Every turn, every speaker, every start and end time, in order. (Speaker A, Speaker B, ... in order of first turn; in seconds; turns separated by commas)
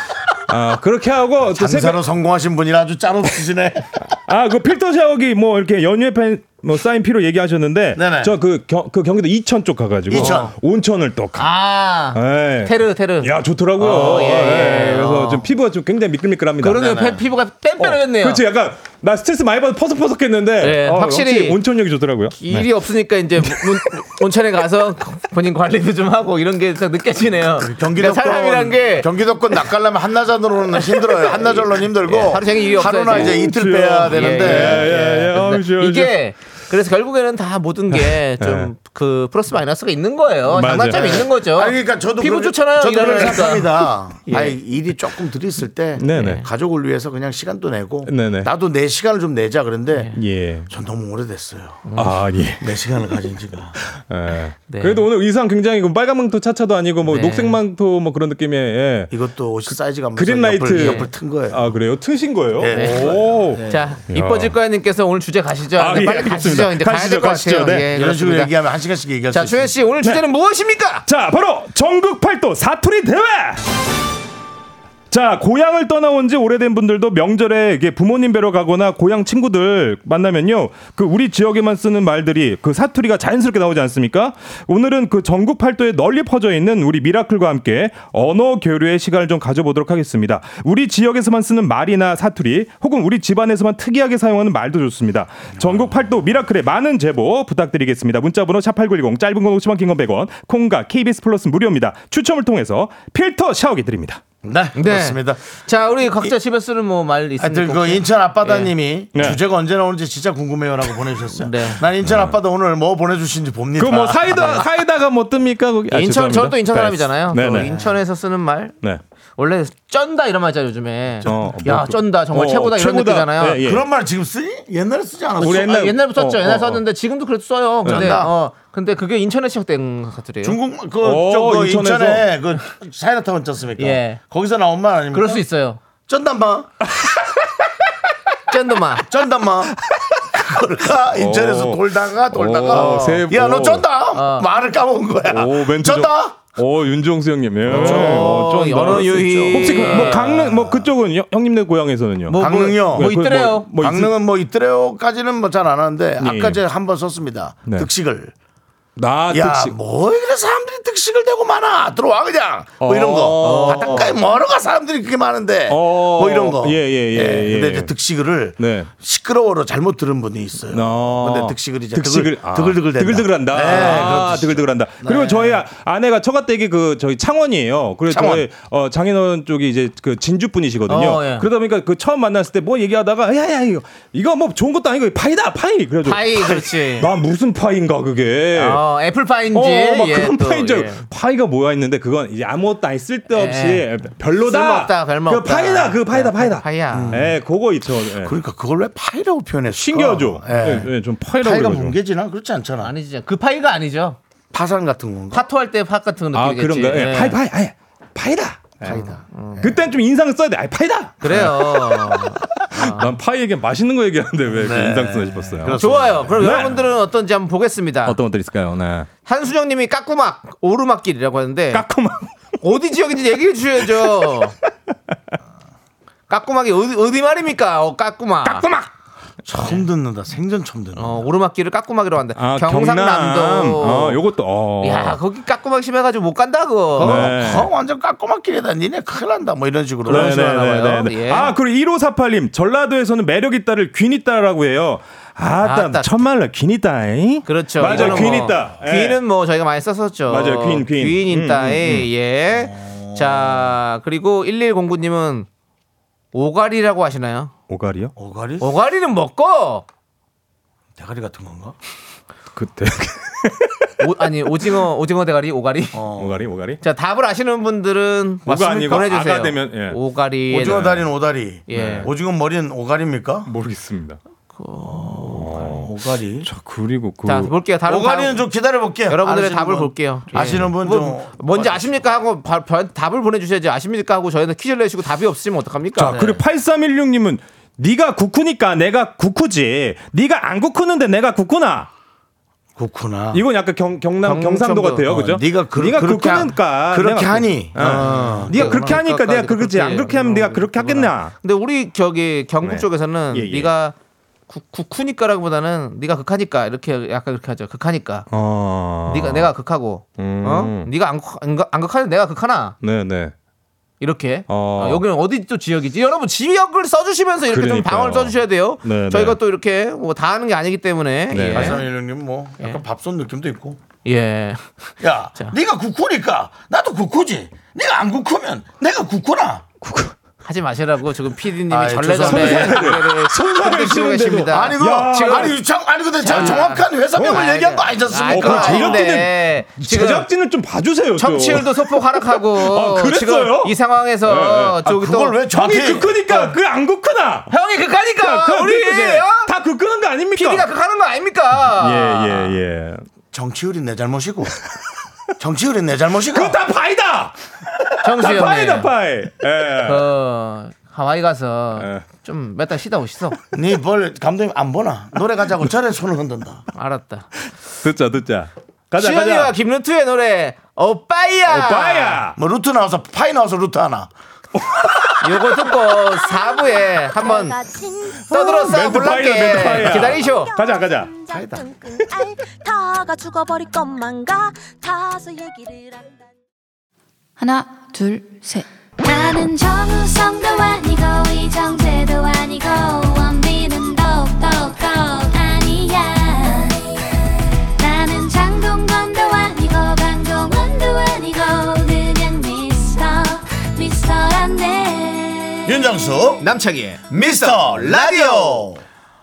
Speaker A: 0.5-2.0, Speaker B: 1.4-4.1, Speaker A: 4.3-11.5, Speaker B: 7.9-8.3, Speaker B: 10.1-10.5, Speaker C: 10.1-10.5, Speaker C: 11.3-15.4, Speaker A: 12.1-17.0, Speaker C: 16.6-18.4, Speaker B: 16.7-17.2, Speaker A: 17.8-22.7, Speaker C: 20.6-21.6, Speaker C: 22.3-29.1, Speaker A: 23.4-23.9, Speaker B: 27.6-35.0, Speaker C: 30.8-44.6, Speaker A: 33.0-36.2, Speaker A: 37.9-38.7, Speaker A: 40.5-41.3, Speaker B: 40.9-50.1, Speaker A: 46.0-46.4, Speaker C: 46.1-46.5, Speaker A: 48.0-48.5, Speaker A: 50.1-50.7, Speaker B: 50.7-51.8, Speaker C: 51.9-52.2, Speaker A: 52.0-53.2, Speaker B: 52.6-53.8, Speaker A: 53.8-59.1, Speaker C: 54.7-55.0, Speaker C: 57.0-57.6, Speaker B: 59.1-61.7, Speaker A: 59.7-64.5, Speaker C: 60.7-61.1, Speaker B: 62.6-63.8, Speaker C: 62.7-68.5, Speaker A: 65.8-67.9, Speaker B: 67.9-69.8, Speaker C: 69.3-71.0, Speaker A: 71.0-73.6, Speaker A: 75.1-104.2, Speaker B: 95.6-95.9, Speaker B: 104.4-105.4, Speaker C: 104.7-108.7, Speaker B: 107.4-114.6, Speaker A: 109.1-109.4, Speaker C: 111.3-111.8, Speaker A: 112.0-112.4, Speaker A: 113.8-117.8, Speaker C: 114.2-114.7, Speaker C: 115.9-118.8, Speaker B: 117.5-117.9, Speaker C: 119.4-123.6, Speaker B: 121.2-121.6, Speaker A: 121.2-123.9, Speaker B: 123.6-125.8, Speaker A: 125.4-126.8, Speaker C: 125.4-130.6, Speaker A: 127.8-128.2, Speaker B: 127.8-128.3, Speaker B: 130.4-135.4, Speaker A: 131.0-132.3, Speaker C: 133.8-134.2, Speaker C: 135.1-135.8, Speaker B: 136.1-136.8, Speaker C: 138.5-139.1, Speaker B: 139.0-146.5, Speaker A: 141.1-143.9, Speaker C: 142.7-143.2, Speaker C: 144.1-144.5, Speaker A: 145.3-154.1, Speaker B: 147.7-150.9, Speaker C: 147.7-150.4, Speaker C: 152.3-153.7, Speaker B: 152.3-153.1, Speaker B: 153.7-158.3, Speaker A: 156.2-156.6, Speaker A: 158.9-159.8, Speaker B: 159.3-175.6, Speaker A: 162.8-164.1, Speaker C: 163.4-164.2, Speaker A: 165.7-167.9, Speaker A: 168.6-168.9, Speaker A: 170.7-188.8, Speaker C: 173.7-174.2, Speaker B: 178.1-178.4, Speaker C: 180.9-181.5, Speaker C: 186.0-187.1, Speaker C: 188.5-191.1, Speaker A: 189.5-198.3, Speaker C: 193.3-197.2, Speaker B: 196.9-197.4, Speaker B: 198.1-202.9, Speaker A: 199.7-202.0, Speaker C: 202.8-204.2, Speaker B: 204.5-205.5, Speaker C: 205.3-207.4, Speaker A: 206.3-209.1, Speaker B: 208.8-209.8, Speaker C: 208.9-209.7, Speaker A: 209.6-216.8, Speaker C: 211.2-213.1, Speaker B: 214.5-216.8, Speaker C: 215.7-218.2, Speaker A: 218.1-219.1, Speaker C: 219.2-221.8, Speaker A: 221.7-222.3, Speaker C: 222.6-224.6, Speaker A: 223.8-224.5, Speaker C: 226.3-228.7, Speaker B: 229.4-231.2, Speaker C: 229.6-229.8, Speaker C: 230.9-234.2, Speaker A: 232.3-235.2, Speaker C: 234.8-237.3, Speaker B: 237.0-240.7, Speaker A: 237.0-237.7, Speaker C: 240.1-241.5, Speaker A: 240.1-249.2, Speaker C: 245.6-246.1, Speaker C: 247.4-255.5, Speaker B: 247.8-248.6, Speaker A: 250.3-252.1, Speaker B: 252.5-253.7, Speaker C: 256.3-257.5, Speaker A: 257.7-258.1, Speaker B: 258.1-258.7, Speaker C: 258.6-259.9, Speaker B: 260.9-261.8, Speaker A: 262.5-263.9, Speaker C: 264.0-266.0, Speaker B: 265.9-266.5, Speaker A: 266.2-266.8, Speaker C: 266.8-271.0, Speaker B: 268.4-269.1, Speaker A: 268.4-270.0, Speaker B: 270.5-273.5, Speaker A: 270.6-271.1, Speaker C: 271.7-272.1, Speaker A: 271.7-272.1, Speaker A: 273.4-274.2, Speaker C: 274.5-275.8, Speaker B: 274.8-276.5, Speaker A: 275.3-275.9, Speaker A: 276.4-277.5, Speaker C: 277.2-278.5, Speaker B: 277.9-282.0, Speaker C: 279.1-286.4, Speaker A: 280.3-280.7, Speaker A: 285.9-291.9, Speaker B: 292.8-293.4, Speaker A: 293.3-301.3, Speaker C: 294.2-295.1, Speaker B: 294.9-299.0, Speaker C: 297.8-303.9, Speaker A: 302.6-303.7, Speaker C: 304.5-308.2, Speaker A: 308.3-309.5, Speaker C: 309.0-312.8, Speaker A: 310.2-310.9, Speaker A: 312.8-313.3, Speaker C: 314.0-321.8, Speaker A: 314.5-315.0, Speaker A: 317.5-319.4, Speaker A: 321.3-321.8, Speaker B: 321.5-323.8, Speaker C: 324.0-324.7, Speaker B: 325.0-329.6, Speaker A: 329.8-330.1, Speaker C: 330.4-335.6, Speaker B: 331.7-333.0, Speaker A: 332.1-335.6, Speaker B: 334.5-339.2, Speaker C: 336.2-340.2, Speaker A: 336.3-337.5, Speaker A: 338.1-344.8, Speaker C: 341.1-345.4, Speaker B: 344.8-346.2, Speaker A: 345.5-347.5, Speaker C: 346.3-346.5, Speaker C: 347.5-349.5, Speaker A: 348.2-350.7, Speaker C: 350.3-352.6, Speaker A: 351.7-353.0, Speaker B: 353.3-354.6, Speaker B: 355.4-356.6, Speaker A: 356.3-360.1, Speaker C: 358.0-358.9, Speaker C: 359.8-363.4, Speaker A: 361.8-362.0, Speaker B: 363.5-366.6, Speaker C: 366.7-367.3, Speaker A: 367.8-369.5, Speaker C: 369.0-372.2, Speaker A: 371.4-372.4, Speaker B: 372.3-374.1, Speaker A: 374.5-375.4, Speaker C: 375.2-377.6, Speaker D: 376.2-378.2, Speaker A: 378.3-381.1, Speaker C: 378.3-380.5, Speaker D: 379.8-386.1, Speaker B: 381.3-381.6, Speaker D: 387.4-396.9, Speaker D: 397.8-405.7, Speaker B: 405.6-406.4, Speaker C: 406.4-408.7, Speaker B: 407.1-408.8